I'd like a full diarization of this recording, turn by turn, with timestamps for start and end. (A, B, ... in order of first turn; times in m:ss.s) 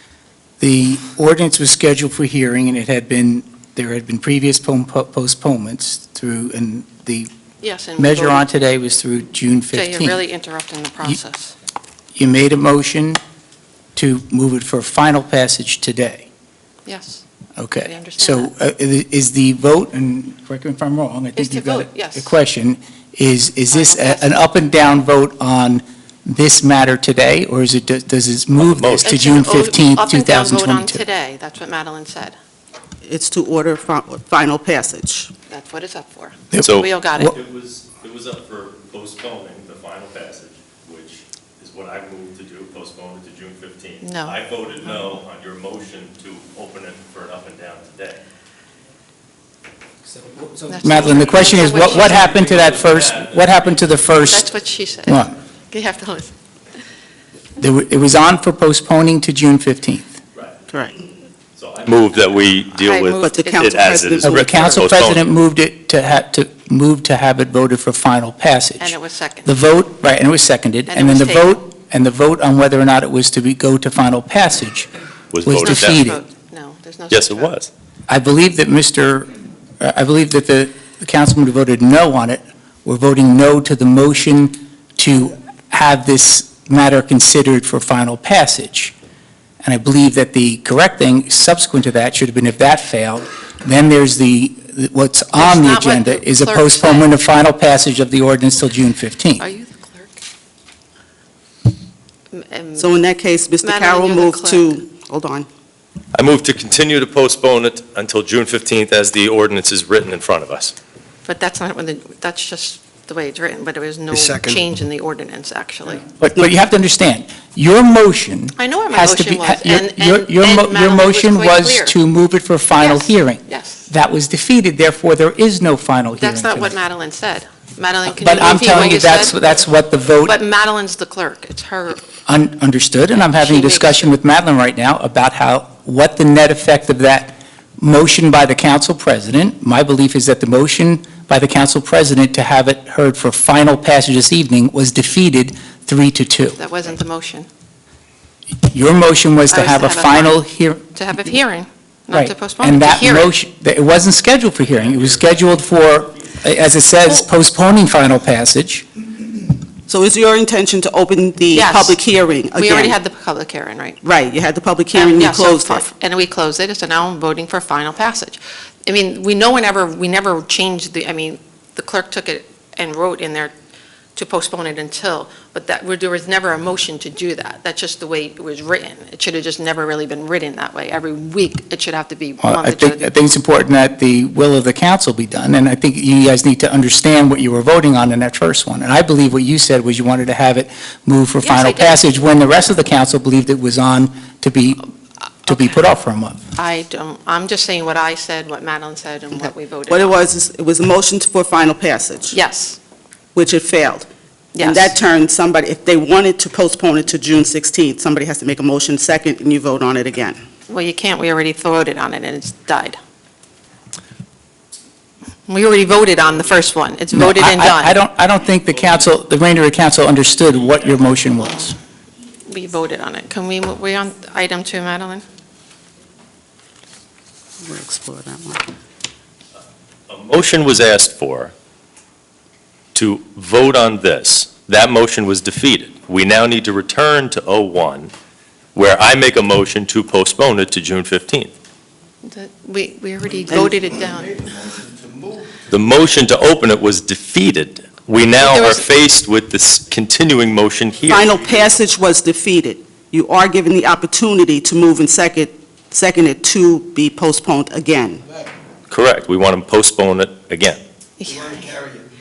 0:00.6-0:07.3 A
0:07.6-0:08.5 B
0:08.0-0:10.2 A
0:09.7-0:11.6 B
0:12.2-0:13.2 A
0:14.0-0:16.3 A
0:16.8-0:17.2 B
0:17.6-0:31.0 A
0:17.8-0:18.5 B
0:21.4-0:22.4 B
0:23.7-0:24.4 B
0:28.6-0:29.2 C
0:29.0-0:32.4 B
0:33.0-0:35.3 D
0:35.5-0:37.4 B
0:36.5-0:37.4 A
0:36.6-0:48.2 C
0:44.0-0:44.4 B
0:50.7-0:52.4 B
0:50.8-0:54.4 A
0:51.2-0:54.0 C
0:54.2-0:56.3 B
0:55.1-0:55.3 A
0:57.6-1:00.2 A
1:00.7-1:01.0 D
1:01.6-1:05.3 C
1:02.8-1:04.1 B
1:03.2-1:04.4 D
1:04.2-1:14.9 A
1:08.8-1:09.6 B
1:10.9-1:11.6 B
1:15.3-1:16.0 C
1:15.4-1:16.2 A
1:15.6-1:17.6 B
1:17.1-1:17.7 C
1:18.1-1:28.9 A
1:29.6-1:39.4 A
1:35.3-1:37.1 B
1:39.4-1:40.2 B
1:42.3-1:42.9 B
1:42.8-1:45.5 D
1:43.6-1:44.8 B
1:46.1-1:50.8 C
1:51.2-1:56.0 B
1:56.2-2:06.8 A
1:58.6-2:02.0 B
2:02.8-2:03.8 B
2:06.2-2:09.4 B
2:08.1-2:10.4 A
2:10.2-2:12.0 B
2:12.3-2:26.6 A
2:13.4-2:14.1 B
2:26.6-2:27.5 B
2:28.6-2:30.9 A
2:29.5-2:30.4 B
2:30.9-2:33.3 B
2:32.1-2:38.9 A
2:39.9-2:43.0 D
2:41.5-2:42.0 B
2:42.6-2:44.0 B
2:44.0-2:45.8 D
2:44.9-2:53.5 B
2:54.2-3:03.1 B
3:02.4-3:14.8 A
3:11.4-3:12.1 B
3:15.4-3:16.4 A
3:16.6-3:20.2 B
3:19.9-3:22.4 D
3:22.3-3:22.8 B
3:23.4-3:24.1 D
3:24.6-3:25.0 B
3:24.6-3:30.4 D
3:30.7-3:33.0 B
3:35.5-3:38.0 B
3:37.1-3:41.8 A
3:38.7-3:39.2 C
3:40.4-3:41.1 C
3:42.5-3:45.2 B
3:47.6-3:48.6 D
3:50.1-3:51.5 C
3:52.9-3:58.1 C
3:58.8-4:01.5 C
4:02.2-4:04.5 B
4:03.5-4:03.8 D
4:05.7-4:11.5 C
4:08.4-4:08.9 B
4:11.1-4:18.2 D
4:18.9-4:20.8 C
4:21.2-4:21.8 B